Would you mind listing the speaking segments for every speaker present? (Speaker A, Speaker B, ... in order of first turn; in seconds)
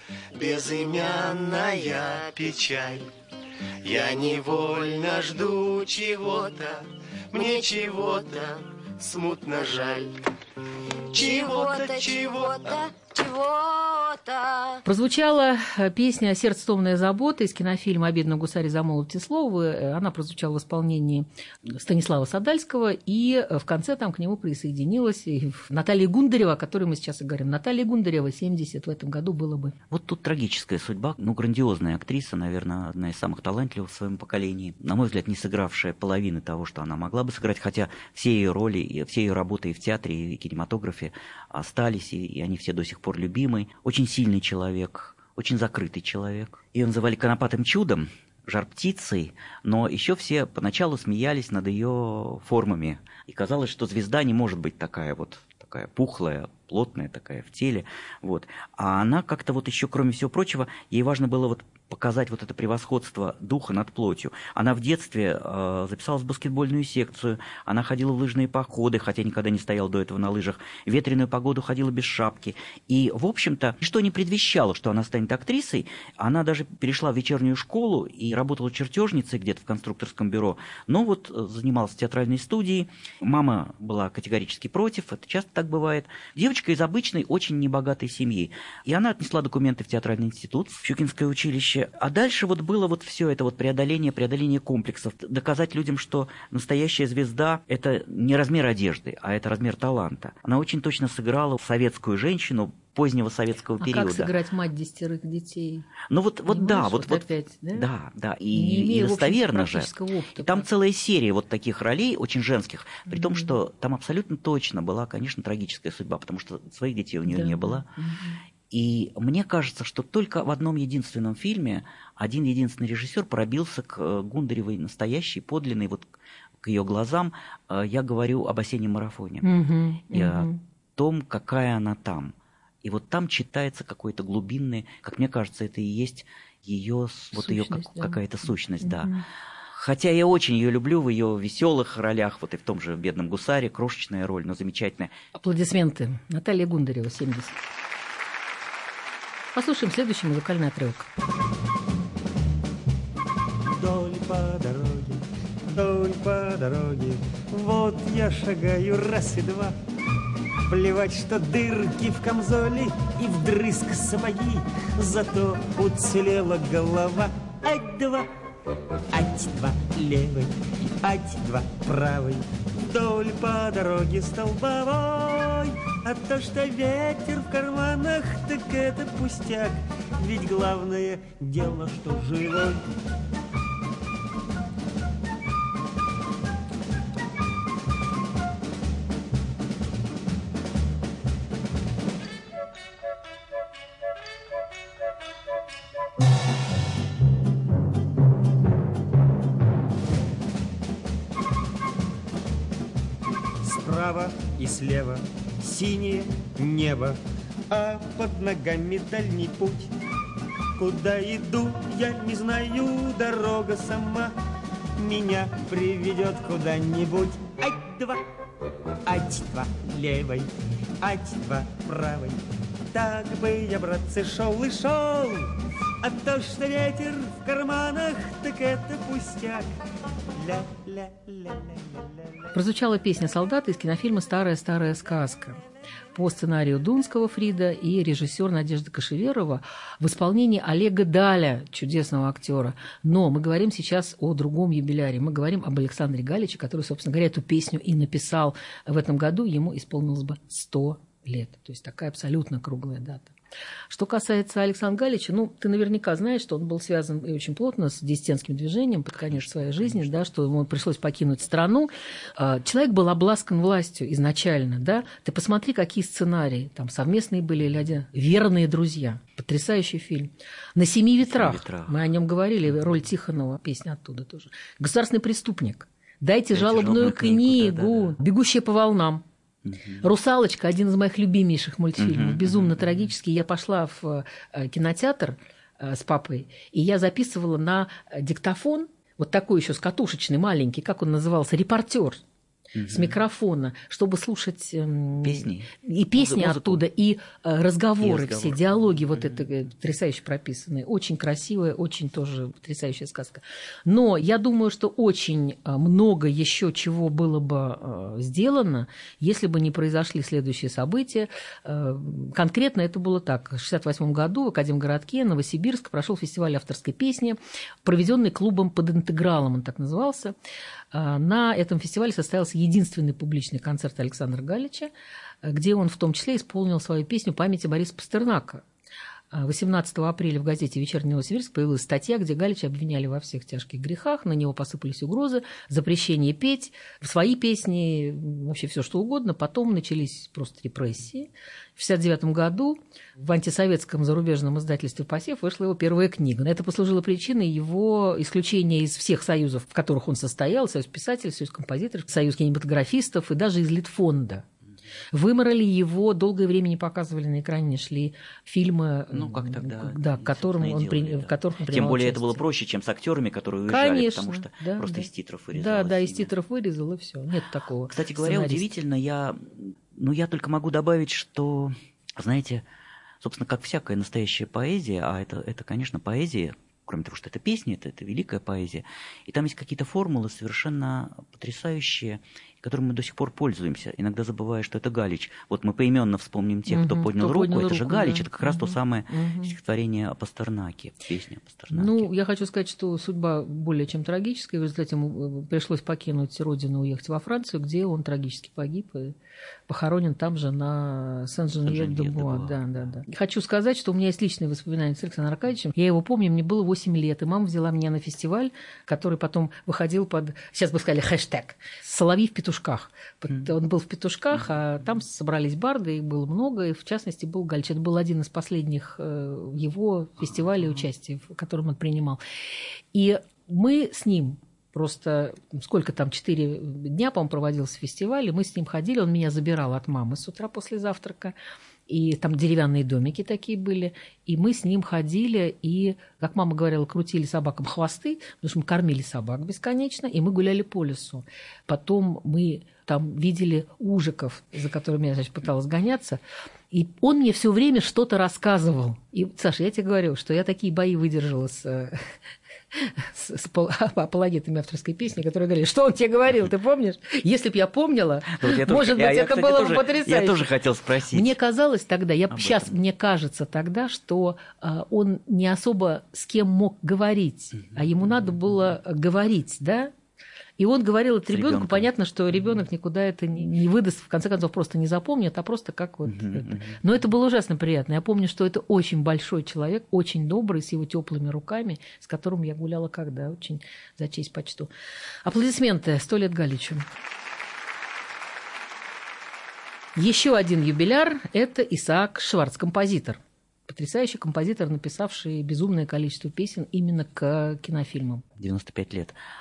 Speaker A: 0.3-3.0, 3.8-10.0, 11.1-12.8
Speaker B: 0.4-1.3, 1.8-2.3, 7.3-8.3, 11.2-14.8
Speaker C: 14.8-29.7, 103.8-105.9, 106.5-107.9, 108.5-110.7, 113.1-113.5, 117.2-118.4, 129.4-130.6, 137.3-138.2, 138.8-139.2, 145.3-147.6, 149.5-151.1, 232.5-235.6, 236.1-253.3, 253.9-279.2, 280.0-292.2, 292.9-320.3, 320.9-324.9, 325.4-328.6, 329.3-354.4, 355.1-362.4, 363.7-368.7, 386.7-389.5, 391.7-399.1, 399.7-422.2, 422.9-431.3, 431.9-446.2, 446.7-452.1, 452.7-460.5, 461.1-469.9, 470.6-484.7, 485.2-486.8, 489.9-498.2
Speaker D: 29.9-104.3, 106.1-117.9, 118.7-126.1, 126.6-129.4, 130.1-139.1, 139.7-145.1, 259.2-260.1, 271.2-271.9, 276.5-278.1, 279.6-280.0, 282.0-283.0, 292.7-293.1, 295.2-296.8, 298.0-299.4, 359.1-366.3, 367.9-372.6, 373.2-392.1, 401.6-402.6, 458.3-461.3, 462.3-462.7, 471.3-471.9, 476.1-476.8, 498.4-499.1
Speaker E: 153.7-155.2, 155.7-159.7, 160.7-168.3, 169.1-182.8, 203.6-207.2, 207.7-209.9, 210.8-214.3, 215.0-218.2, 219.1-220.5, 221.0-222.4, 222.9-225.5, 226.0-229.7, 230.4-232.3